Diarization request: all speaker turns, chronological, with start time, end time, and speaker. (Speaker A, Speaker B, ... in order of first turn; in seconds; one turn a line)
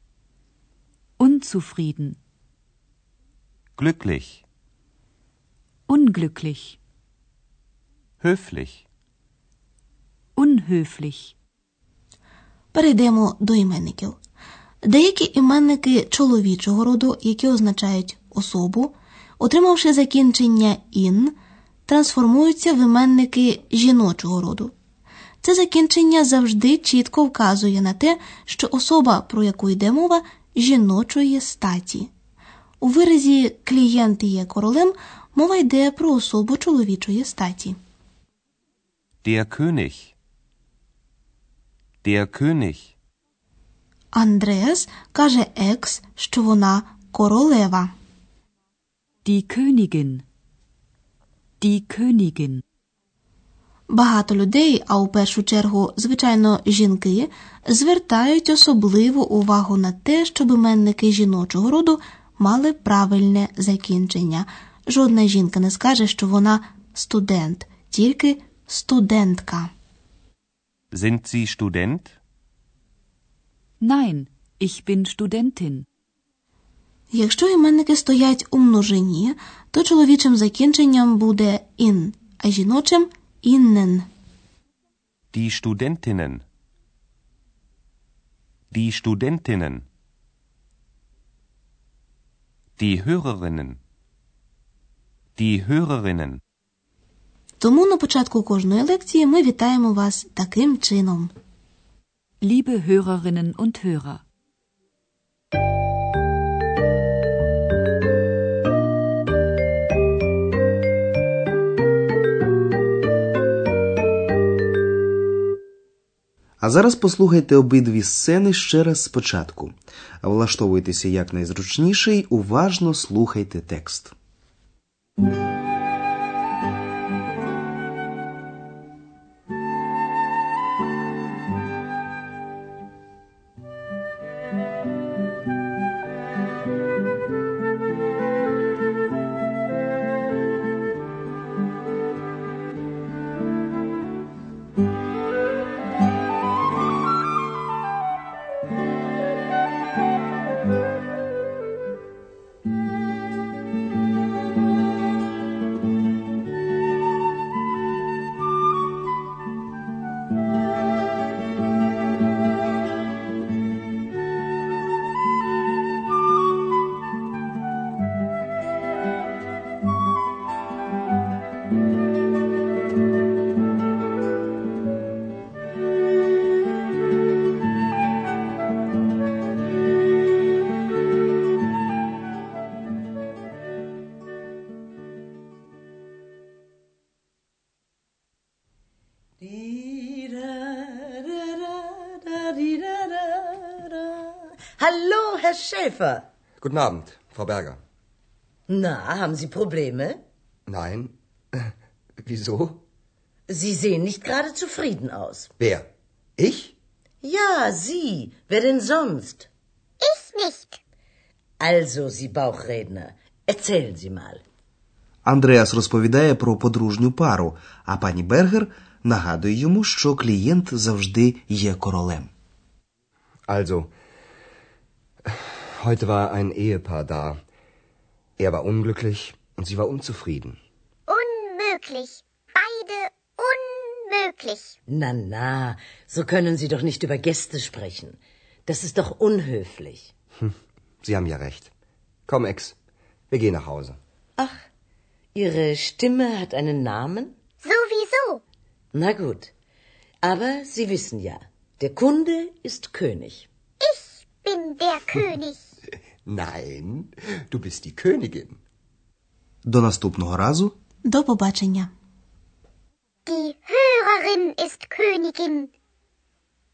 Speaker A: 1.2-2.2
Speaker B: 3.8-4.4
Speaker A: 5.9-6.8
Speaker B: 8.2-8.8
Speaker A: 10.4-11.3
Speaker C: 12.7-14.2
Speaker C: 14.8-24.7
Speaker C: 25.4-32.1
Speaker C: 32.8-37.8
Speaker B: 39.2-40.1
Speaker B: 42.0-42.9
Speaker C: 44.1-47.9
Speaker A: 49.2-50.2
Speaker A: 51.6-52.6
Speaker C: 53.9-69.7
Speaker B: 70.9-72.1
Speaker A: 73.8-75.9
Speaker C: 77.1-84.1
Speaker B: 85.3-86.4
Speaker B: 88.7-89.8
Speaker B: 92.8-93.8
Speaker B: 95.4-96.4
Speaker C: 97.6-101.3
Speaker A: 102.4-104.2
Speaker D: 116.6-124.1
Speaker E: 189.4-196.2
Speaker F: 196.6-197.8
Speaker E: 198.7-200.2
Speaker F: 200.7-201.6
Speaker F: 202.2-202.8
Speaker E: 203.5-205.5
Speaker F: 205.6-205.9
Speaker F: 206.4-206.7
Speaker E: 207.2-209.5
Speaker G: 210.0-210.8
Speaker E: 211.6-214.4
Speaker D: 215.2-222.3
Speaker F: 223.5-223.9
Speaker F: 225.3-227.4
Speaker F: 228.4-230.6
Speaker G: 231.1-234.8
Speaker E: 234.9-240.1
Speaker F: 241.0-241.7
Speaker F: 242.3-242.7
Speaker F: 243.3-244.0
Speaker E: 245.3-247.3
Speaker G: 247.6-248.4
Speaker E: 248.9-249.5
Speaker E: 250.2-253.5
Speaker G: 253.8-255.6
Speaker F: 256.3-258.6
Speaker D: 259.6-260.8
Speaker C: 261.1-261.9
Speaker G: 263.3-265.7